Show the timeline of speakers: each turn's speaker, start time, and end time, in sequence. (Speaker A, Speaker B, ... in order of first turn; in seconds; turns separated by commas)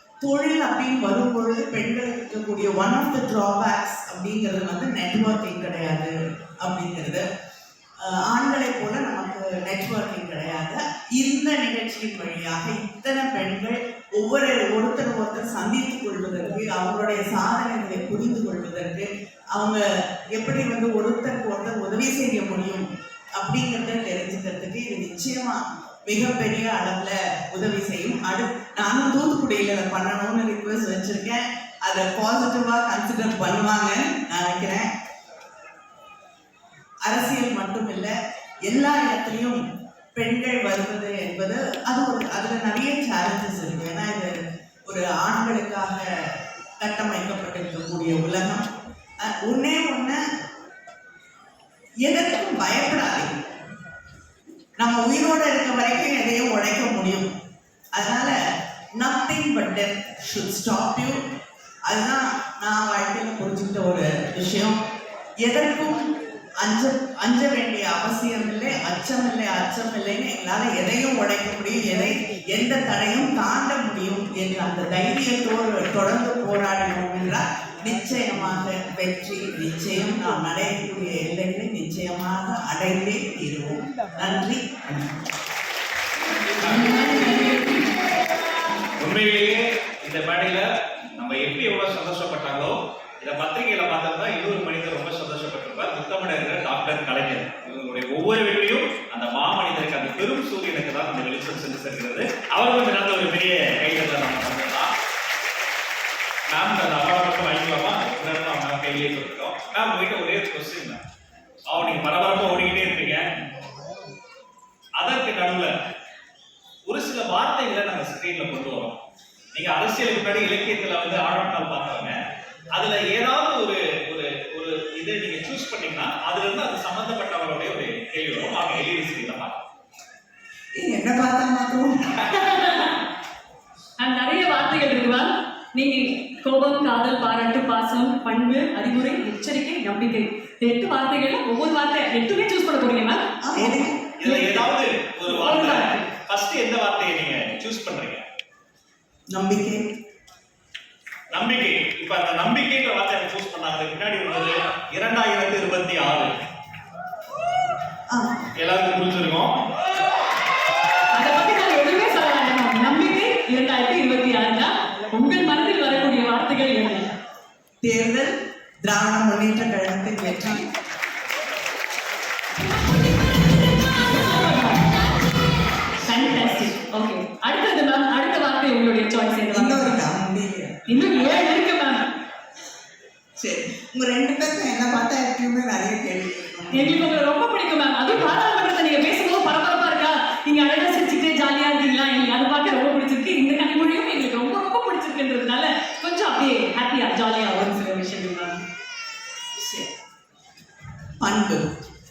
Speaker A: 0.2-7.2, Speaker A: 8.0-34.9, Speaker A: 37.0-38.1, Speaker A: 38.6-39.6, Speaker A: 40.1-44.3, Speaker A: 44.9-46.0, Speaker A: 46.8-48.6, Speaker A: 49.2-50.2, Speaker A: 52.0-53.3, Speaker A: 54.8-57.3, Speaker A: 57.9-58.3, Speaker A: 59.0-61.2, Speaker A: 61.9-64.8, Speaker A: 65.4-66.1, Speaker A: 66.6-85.1, Speaker B: 87.2-87.7, Speaker C: 89.0-104.9, Speaker C: 106.5-111.0, Speaker C: 111.7-113.3, Speaker C: 115.0-115.7, Speaker C: 116.9-119.0, Speaker C: 119.5-122.2, Speaker C: 122.7-129.6, Speaker A: 130.8-132.1, Speaker B: 132.3-132.9, Speaker B: 134.0-143.2, Speaker A: 143.4-144.1, Speaker C: 143.6-148.2, Speaker B: 144.2-144.6, Speaker B: 145.3-146.1, Speaker A: 149.3-149.8, Speaker C: 151.3-156.3, Speaker A: 158.1-158.4, Speaker C: 158.6-159.5, Speaker B: 161.1-167.1, Speaker A: 167.8-170.7, Speaker B: 174.0-174.8, Speaker B: 176.0-180.0, Speaker A: 179.5-180.8, Speaker B: 180.9-182.0, Speaker A: 183.4-187.1, Speaker B: 186.7-198.6, Speaker A: 199.6-199.9, Speaker A: 201.2-201.7